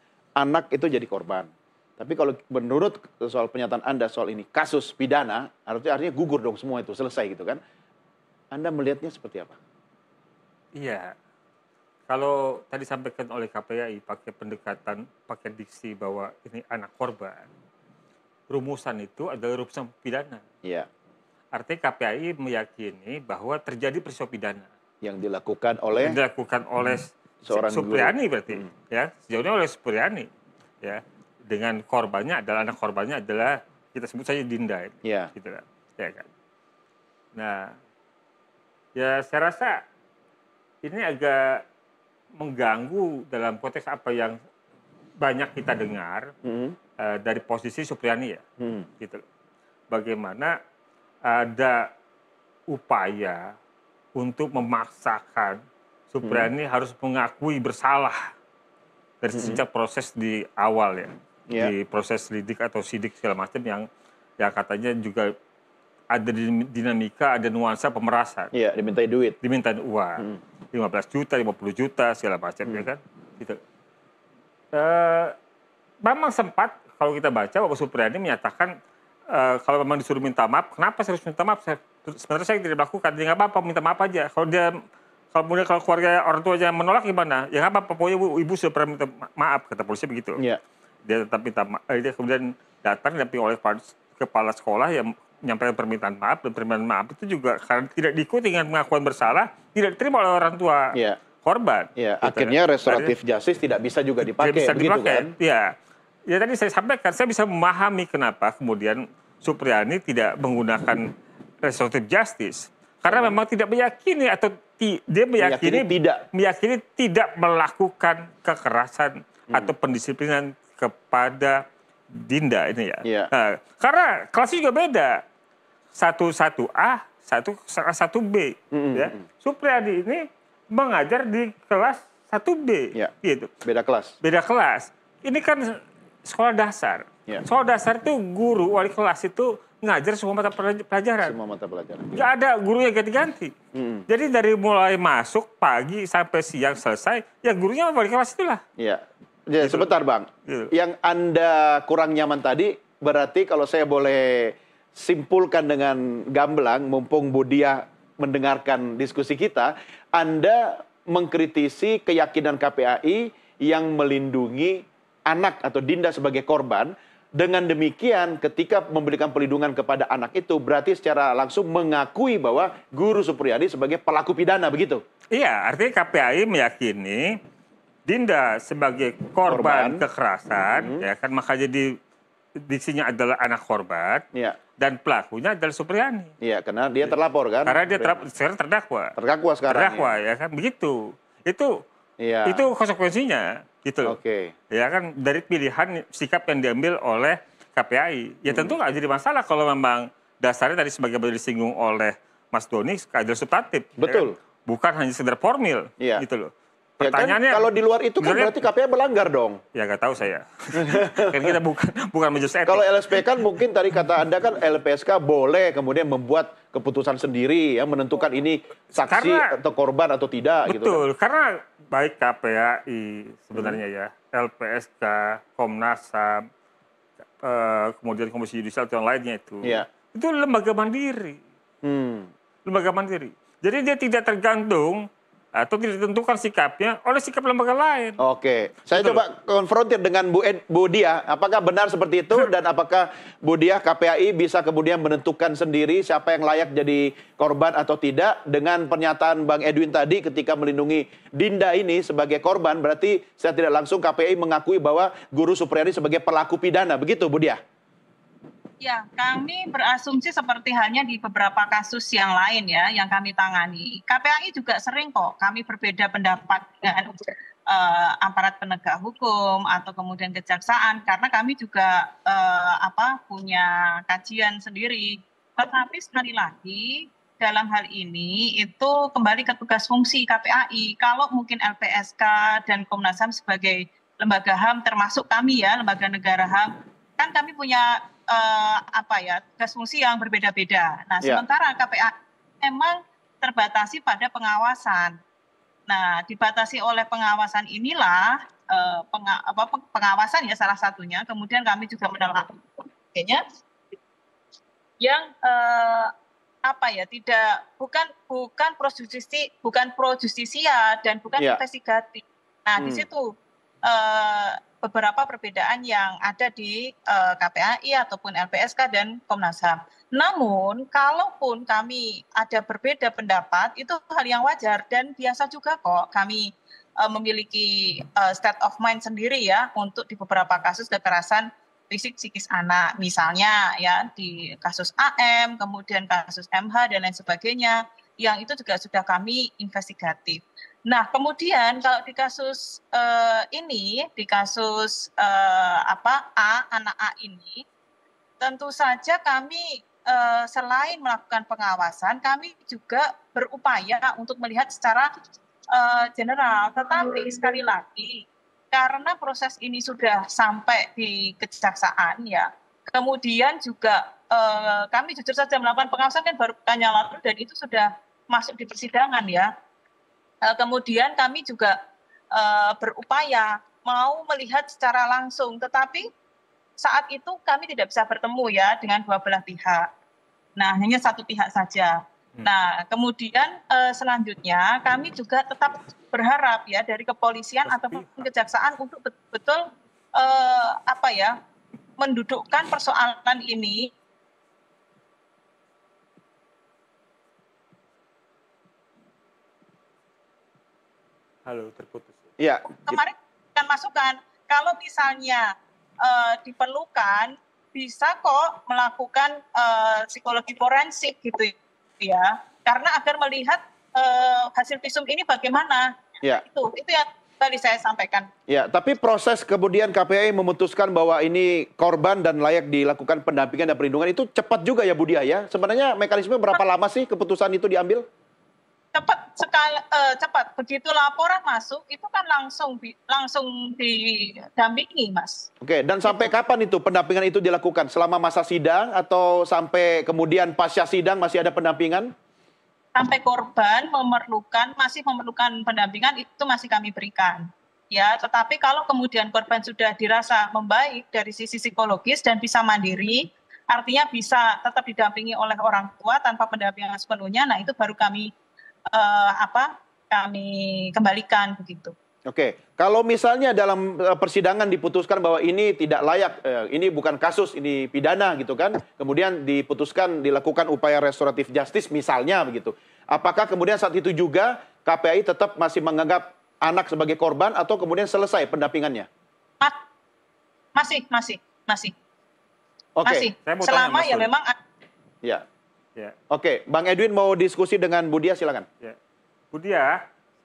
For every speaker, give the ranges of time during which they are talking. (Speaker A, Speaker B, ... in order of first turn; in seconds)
Speaker A: 0.4-7.6, 8.5-9.6, 25.0-26.2, 27.4-28.7, 35.0-35.3, 46.4-46.8, 48.6-48.9, 56.2-56.5, 59.3-59.6, 61.5-61.7, 68.5-69.4, 100.9-101.2, 102.0-105.3, 113.1-113.3, 115.4-116.2, 123.0-123.3, 128.7-129.2, 133.6-134.2, 141.2-142.3, 143.7-144.1, 148.8-175.0, 179.4-180.0, 180.8-181.1, 186.4-188.2, 189.2-190.2, 192.2-192.6, 194.1-194.5, 198.5-198.8, 204.0-204.4, 206.0-206.2, 207.0-209.6, 210.8-211.6, 212.7-221.0, 231.8-232.3, 238.2-257.6, 312.8-313.1, 402.4-403.0, 418.5-428.0, 435.6-442.1, 462.3-479.1, 483.0-483.3, 486.3-488.7
Speaker B: 10.8-11.2, 12.1-17.5, 18.5-20.4, 21.5-24.7, 26.0-30.3, 30.8-36.3, 37.3-37.7, 39.0-39.8, 40.8-41.6, 42.4-44.3, 45.2-46.3, 47.0-48.4, 49.9-50.5, 51.2-51.9, 52.7-53.4, 54.2-55.6, 56.1-58.3, 59.2-63.9, 64.4-65.3, 66.1-68.5, 69.4-73.6, 74.7-75.3, 76.0-78.7, 79.3-84.7, 85.3-90.4, 91.1-103.1, 104.3-105.7, 106.3-111.0, 111.6-121.6, 122.1-125.2, 126.0-133.5, 134.2-141.3, 142.1-143.5, 144.1-148.6, 149.6-149.9, 150.5-150.7, 175.3-177.4, 178.1-181.9, 182.7-184.2, 184.8-186.3, 187.6-189.1, 189.7-191.7, 192.4-194.2, 194.7-207.7, 208.2-208.6, 209.8-213.4, 219.0-219.5, 220.7-226.4, 227.4-231.4, 232.7-235.0, 235.6-238.2, 238.9-239.2, 387.7-388.3, 401.5-402.2, 483.4-484.3, 489.5-490.0
Speaker C: 258.8-295.2, 295.9-303.4, 305.0-306.1, 306.7-313.3, 313.8-326.5, 327.0-347.6, 348.4-355.1, 355.7-369.5, 370.4-371.8, 372.3-376.1, 376.8-379.9, 380.6-391.4, 392.0-393.9, 402.9-418.3, 428.9-435.5, 436.1-436.3, 442.9-458.3, 458.9-461.9, 480.8-481.9, 483.1-484.6